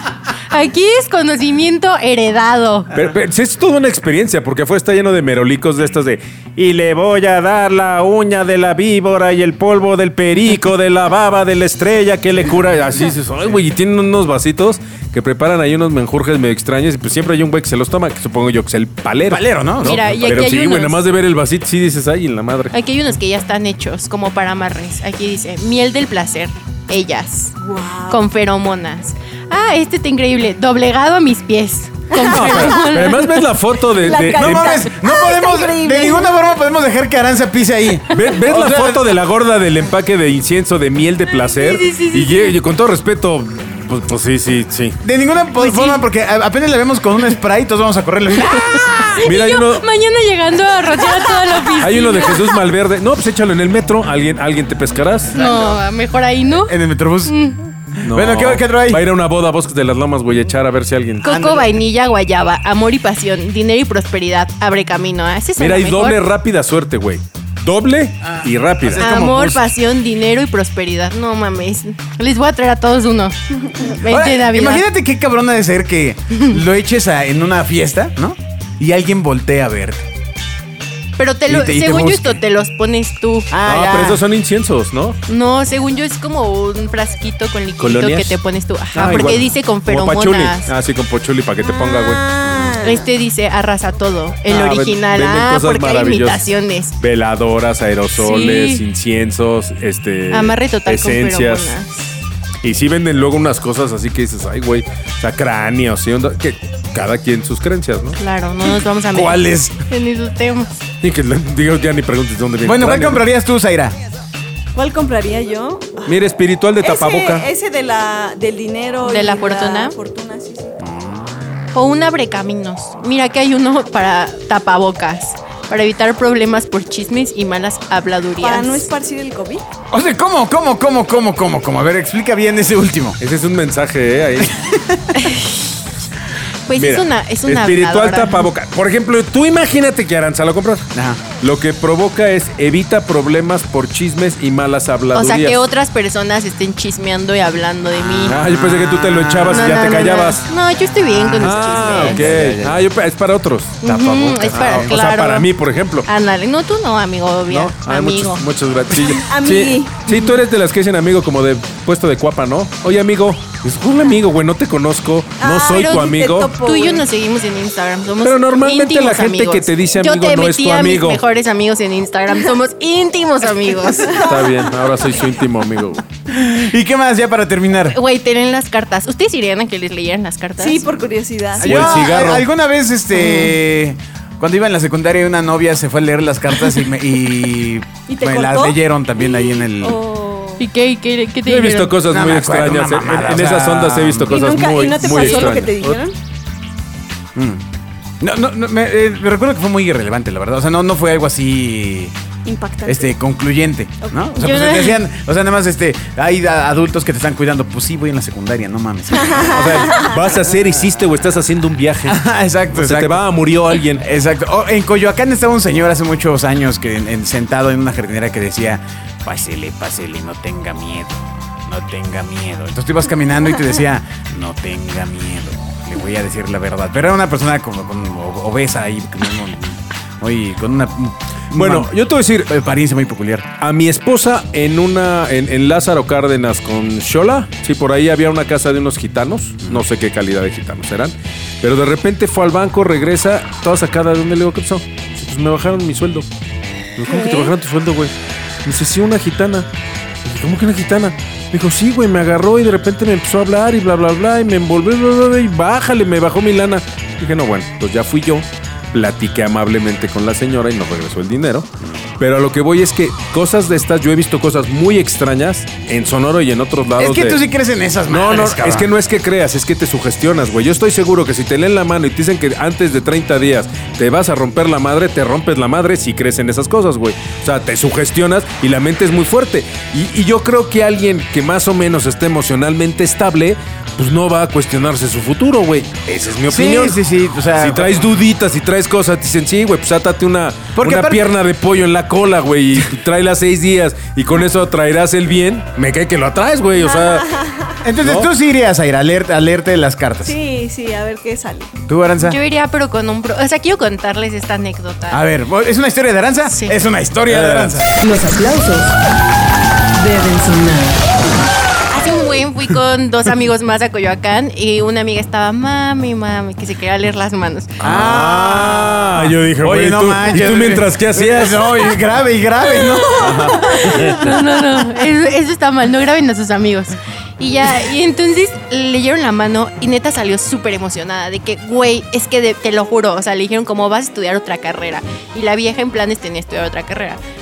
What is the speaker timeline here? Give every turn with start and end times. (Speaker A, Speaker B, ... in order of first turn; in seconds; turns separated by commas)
Speaker A: 0.5-2.9, Speaker B: 2.9-22.8, Speaker C: 19.3-20.1, Speaker A: 19.8-21.0, Speaker A: 22.7-27.6, Speaker D: 27.6-28.2, Speaker A: 28.1-33.5, Speaker D: 32.2-32.8, Speaker B: 32.3-34.9, Speaker D: 34.0-36.3, Speaker C: 34.1-39.1, Speaker B: 38.1-45.0, Speaker A: 41.5-42.6, Speaker C: 45.0-48.9, Speaker A: 45.6-46.0, Speaker A: 48.4-52.6, Speaker B: 49.2-49.8, Speaker B: 51.8-55.4, Speaker C: 55.3-55.8, Speaker A: 55.3-57.7, Speaker C: 56.7-57.3, Speaker B: 58.0-61.3, Speaker C: 58.0-59.0, Speaker A: 61.2-66.3, Speaker C: 61.2-61.8, Speaker B: 65.6-69.1, Speaker C: 68.5-69.6, Speaker A: 69.0-74.8, Speaker C: 74.0-80.0, Speaker A: 76.3-76.6, Speaker A: 81.2-83.5, Speaker C: 81.5-82.4, Speaker C: 83.5-84.2, Speaker B: 83.7-85.2, Speaker A: 85.3-90.7, Speaker B: 87.8-88.4, Speaker B: 88.9-92.8, Speaker D: 91.6-93.0, Speaker A: 92.8-97.0, Speaker B: 94.5-96.5, Speaker B: 97.0-101.8, Speaker A: 98.2-98.8, Speaker A: 100.3-102.2, Speaker B: 102.6-108.2, Speaker A: 108.2-110.8, Speaker C: 108.7-109.8, Speaker B: 111.0-113.3, Speaker C: 112.6-114.0, Speaker D: 114.7-116.2, Speaker B: 116.1-117.5, Speaker D: 116.8-120.8, Speaker A: 119.0-119.9, Speaker C: 120.8-121.4, Speaker A: 121.7-128.9, Speaker D: 128.4-129.6, Speaker C: 129.9-133.2, Speaker B: 133.2-134.7, Speaker A: 135.1-135.8, Speaker A: 136.7-138.5, Speaker B: 136.8-140.9, Speaker C: 140.9-141.2, Speaker B: 141.4-145.6, Speaker A: 145.1-148.4, Speaker C: 148.1-149.6, Speaker B: 148.3-150.5, Speaker A: 149.5-152.3, Speaker C: 151.1-152.9, Speaker B: 151.4-153.8, Speaker A: 153.8-155.5, Speaker C: 153.8-154.9, Speaker B: 154.5-156.1, Speaker A: 156.1-158.4, Speaker B: 157.5-166.5, Speaker D: 159.0-160.0, Speaker A: 160.1-160.4, Speaker D: 165.4-167.1, Speaker A: 165.7-174.3, Speaker B: 168.2-171.2, Speaker D: 174.1-174.4, Speaker B: 174.2-176.1, Speaker C: 176.3-178.0, Speaker A: 177.9-180.8, Speaker D: 180.6-181.8, Speaker B: 181.6-182.5, Speaker C: 181.6-190.0, Speaker A: 183.2-183.5, Speaker D: 188.1-190.6, Speaker A: 190.6-192.0, Speaker B: 191.4-196.0, Speaker C: 192.1-194.4, Speaker D: 194.3-196.2, Speaker A: 195.0-195.5, Speaker C: 197.3-197.6, Speaker C: 198.2-202.1, Speaker D: 202.4-203.2, Speaker C: 202.8-210.0, Speaker A: 204.4-205.0, Speaker D: 209.2-210.1, Speaker B: 209.5-214.1, Speaker C: 212.1-213.2, Speaker C: 214.0-233.5, Speaker B: 231.5-232.5, Speaker B: 233.6-246.3, Speaker B: 247.0-249.7, Speaker D: 247.1-247.5, Speaker B: 250.2-261.7, Speaker B: 262.2-267.4, Speaker C: 267.0-268.9, Speaker B: 268.1-287.0, Speaker C: 286.5-288.1, Speaker B: 287.5-297.3, Speaker C: 290.8-291.3, Speaker D: 296.8-297.8, Speaker C: 297.8-300.4, Speaker B: 298.0-298.3, Speaker D: 300.2-301.8, Speaker C: 301.9-302.4, Speaker A: 302.2-305.2, Speaker C: 305.1-307.9, Speaker A: 306.4-306.8, Speaker B: 307.3-307.9, Speaker E: 308.0-309.0, Speaker E: 310.0-311.0, Speaker A: 311.9-317.7, Speaker B: 317.8-322.0, Speaker C: 317.8-323.5, Speaker D: 322.9-323.6, Speaker B: 323.2-324.4, Speaker A: 323.6-337.2